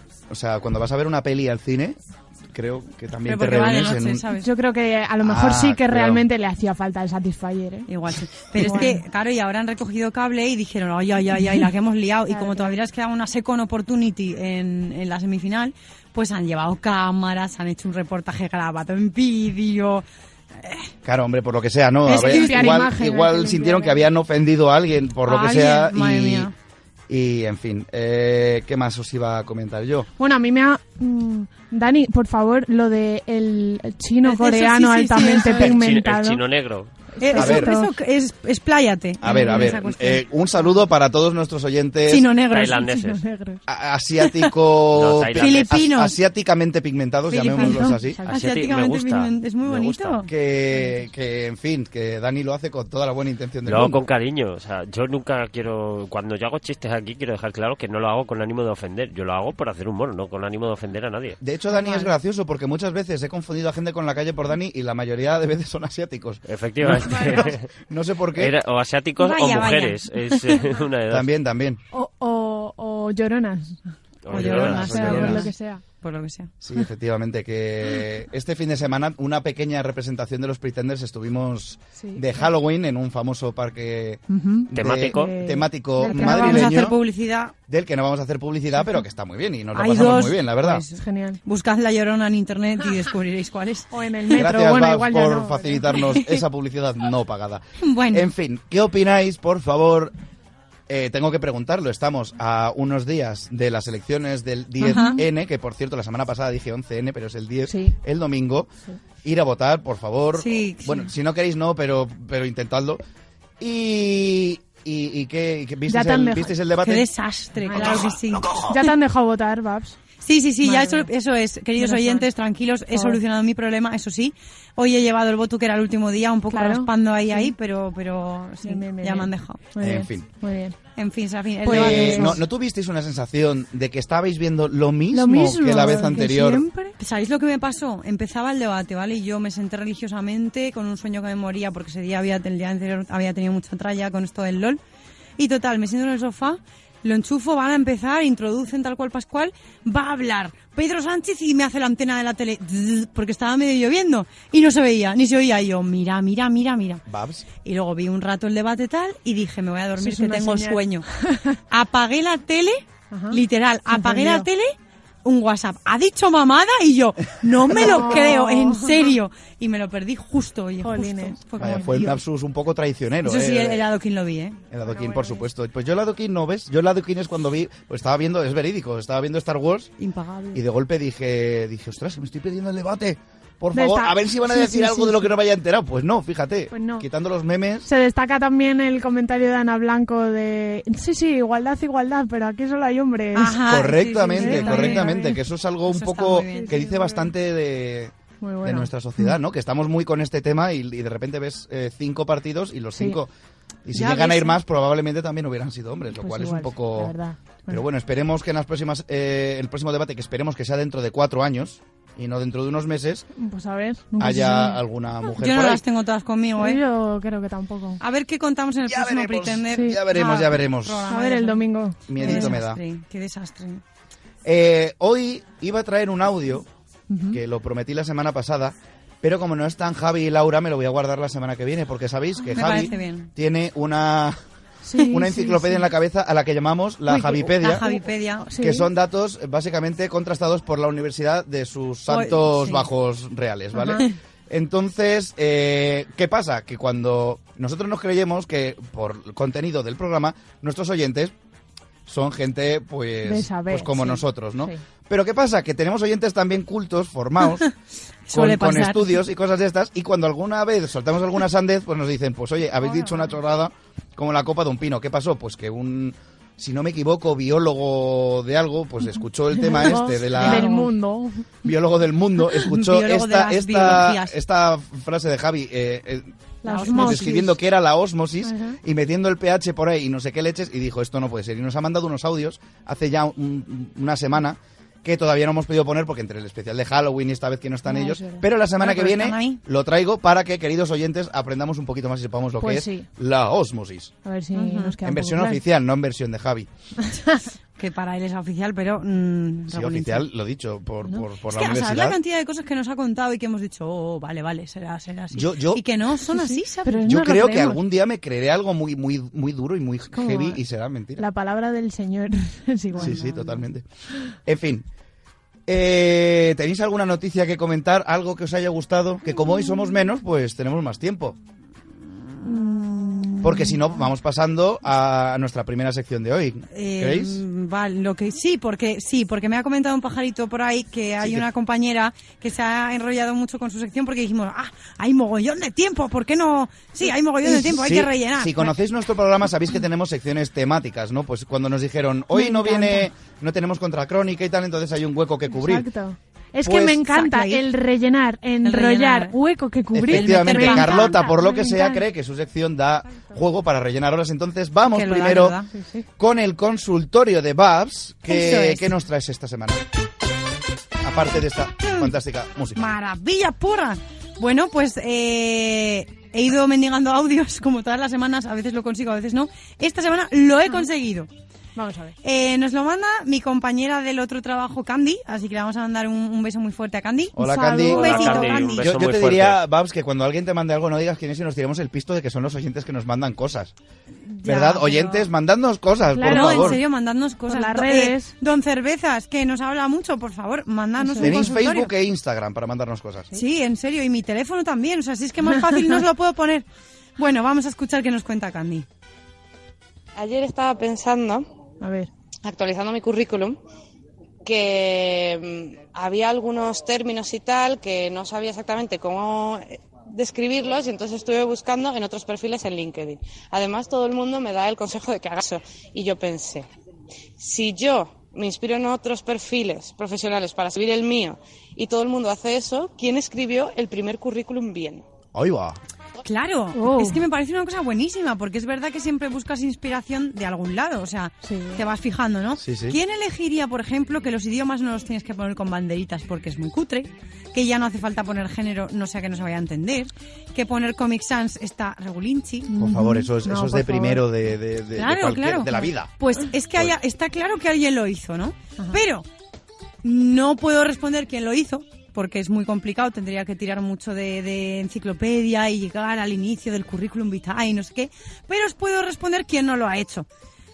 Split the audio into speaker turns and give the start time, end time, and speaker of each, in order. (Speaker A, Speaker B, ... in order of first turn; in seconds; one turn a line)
Speaker A: 0.3-2.0
Speaker A: 2.5-4.2
Speaker B: 3.2-4.5
Speaker C: 4.4-7.9
Speaker A: 5.2-6.2
Speaker B: 7.9-20.1
Speaker C: 8.6-9.0
Speaker C: 12.3-12.8
Speaker B: 20.6-20.9
Speaker A: 21.0-26.5
Speaker C: 22.1-24.0
Speaker B: 22.1-22.9
Speaker B: 25.2-26.5
Speaker A: 27.1-30.1
Speaker C: 30.2-36.4
Speaker B: 34.2-35.8
Speaker D: 35.6-36.9
Speaker C: 37.2-37.9
Speaker B: 37.2-40.3
Speaker A: 37.4-37.7
Speaker A: 39.2-42.3
Speaker C: 39.3-39.7
Speaker B: 42.1-42.9
Speaker D: 42.5-43.2
Speaker C: 42.8-43.6
Speaker A: 43.7-48.2
Speaker D: 44.9-45.9
Speaker B: 45.3-46.2
Speaker B: 47.3-50.3
Speaker C: 47.5-48.4
Speaker D: 48.3-50.3
Speaker A: 50.3-54.0
Speaker C: 50.8-51.0
Speaker D: 53.6-61.4
Speaker A: 61.4-68.5
Speaker C: 61.7-62.1
Speaker D: 66.5-67.7
Speaker C: 67.1-67.5
Speaker D: 68.4-71.3
Speaker B: 69.2-70.7
Speaker A: 71.1-71.8
Speaker C: 71.9-73.9
Speaker D: 74.2-75.3
Speaker A: 74.3-75.5
Speaker B: 74.3-76.5
Speaker C: 74.4-75.8
Speaker A: 76.6-87.0
Speaker C: 82.0-82.5
Speaker C: 84.3-86.7
Speaker D: 84.8-85.3
Speaker B: 86.0-87.5
Speaker A: 87.7-90.8
Speaker B: 89.8-94.4
Speaker C: 91.0-91.4
Speaker C: 93.9-96.0
Speaker A: 94.4-100.1
Speaker B: 97.8-98.3
Speaker A: 100.9-108.7
Speaker B: 104.8-105.2
Speaker C: 105.0-105.2
Speaker C: 107.7-108.0
Speaker A: 109.2-113.0
Speaker B: 110.4-111.1
Speaker A: 113.6-117.1
Speaker C: 115.9-116.5
Speaker B: 116.8-118.7
Speaker C: 117.7-120.0
Speaker A: 117.8-118.6
Speaker B: 120.2-129.6
Speaker C: 120.6-121.1
Speaker C: 121.8-122.3
Speaker C: 122.9-123.2
Speaker C: 126.5-127.5
Speaker C: 128.6-130.8
Speaker A: 129.8-130.3
Speaker B: 131.0-132.4
Speaker C: 131.6-132.4
Speaker A: 131.7-136.7
Speaker C: 135.1-137.0
Speaker B: 137.0-144.8
Speaker B: 145.4-157.0
Speaker A: 157.1-157.5
Speaker B: 157.6-161.1
Speaker C: 160.0-161.6
Speaker B: 161.7-172.2
Speaker C: 163.1-164.5
Speaker C: 167.8-169.1
Speaker C: 170.8-171.9
Speaker A: 171.6-173.9
Speaker B: 173.2-174.6
Speaker A: 174.7-179.9
Speaker C: 174.8-175.5
Speaker B: 180.0-180.6
Speaker A: 180.5-187.9
Speaker C: 183.7-185.3
Speaker C: 186.7-187.0
Speaker C: 187.9-193.6
Speaker B: 193.3-195.1
Speaker A: 193.7-203.3
Speaker C: 194.3-195.4
Speaker B: 195.8-196.8
Speaker C: 196.5-197.3
Speaker C: 198.4-199.4
Speaker A: 203.8-207.2
Speaker B: 203.9-204.6
Speaker C: 206.2-207.8
Speaker A: 207.7-213.3
Speaker C: 213.4-214.8
Speaker A: 214.2-215.8
Speaker B: 215.3-216.8
Speaker C: 216.6-218.0
Speaker B: 218.0-223.8
Speaker A: 218.9-221.1
Speaker C: 219.7-220.0
Speaker C: 221.1-222.6
Speaker A: 222.1-222.8
Speaker A: 224.4-226.7
Speaker C: 227.1-227.4
Speaker A: 227.3-234.4
Speaker B: 232.4-233.3
Speaker C: 234.8-235.9
Speaker A: 235.1-238.0
Speaker B: 237.1-238.5
Speaker C: 237.8-238.9
Speaker A: 238.6-251.3
Speaker B: 242.1-242.9
Speaker C: 243.7-244.0
Speaker A: 252.1-257.7
Speaker C: 253.2-254.8
Speaker B: 258.3-259.2
Speaker A: 258.3-270.7
Speaker B: 262.8-263.3
Speaker C: 269.6-271.7
Speaker B: 269.7-270.9
Speaker A: 271.6-276.3
Speaker B: 272.6-274.4
Speaker C: 276.6-277.3
Speaker B: 276.6-277.6
Speaker A: 276.9-294.1
Speaker C: 278.4-278.8
Speaker C: 287.9-288.4
Speaker B: 288.8-289.6
Speaker C: 292.6-293.1
Speaker C: 294.2-295.6
Speaker B: 294.5-295.0
Speaker A: 295.0-296.7
Speaker C: 297.0-297.4
Speaker B: 297.8-300.3
Speaker A: 299.7-302.2
Speaker B: 301.5-307.1
Speaker A: 305.3-305.9
Speaker C: 306.4-307.8
Speaker A: 307.0-311.2
Speaker C: 310.1-310.6
Speaker C: 311.2-313.3
Speaker A: 313.0-313.9
Speaker B: 313.0-313.4
Speaker A: 314.4-314.9
Speaker A: 315.7-321.4
Speaker B: 322.4-323.8
Speaker A: 323.4-327.4
Speaker B: 326.7-338.7
Speaker A: 331.2-331.5
Speaker A: 337.4-345.9
Speaker C: 342.3-343.1
Speaker C: 345.5-352.1
Speaker A: 346.6-347.1
Speaker B: 347.0-347.7
Speaker B: 348.6-349.4
Speaker A: 349.9-355.6
Speaker B: 350.1-351.2
Speaker B: 354.9-355.7
Speaker C: 355.7-356.1
Speaker A: 356.2-359.9
Speaker B: 358.3-358.9
Speaker A: 361.0-362.8
Speaker B: 362.8-371.3
Speaker C: 371.8-372.2
Speaker B: 372.2-378.9
Speaker A: 377.4-383.7
Speaker C: 377.4-378.7
Speaker D: 377.9-379.6
Speaker B: 384.4-385.2
Speaker A: 384.4-386.8
Speaker C: 386.1-386.8
Speaker B: 386.2-391.9
Speaker C: 387.5-388.3
Speaker C: 391.0-391.5
Speaker A: 391.2-393.4
Speaker B: 393.3-396.7
Speaker C: 395.7-396.0
Speaker B: 397.2-398.9
Speaker E: 400.2-401.4
Speaker C: 401.8-402.1
Speaker E: 402.4-403.6
Speaker E: 404.4-416.7
Speaker E: 417.4-425.0
Speaker A: 425.3-425.8
Speaker B: 426.2-442.7
Speaker C: 426.8-427.2
Speaker C: 431.4-431.8
Speaker A: 432.6-433.0
Speaker C: 442.7-444.2
Speaker A: 442.8-446.1
Speaker B: 445.0-449.3
Speaker B: 450.0-460.3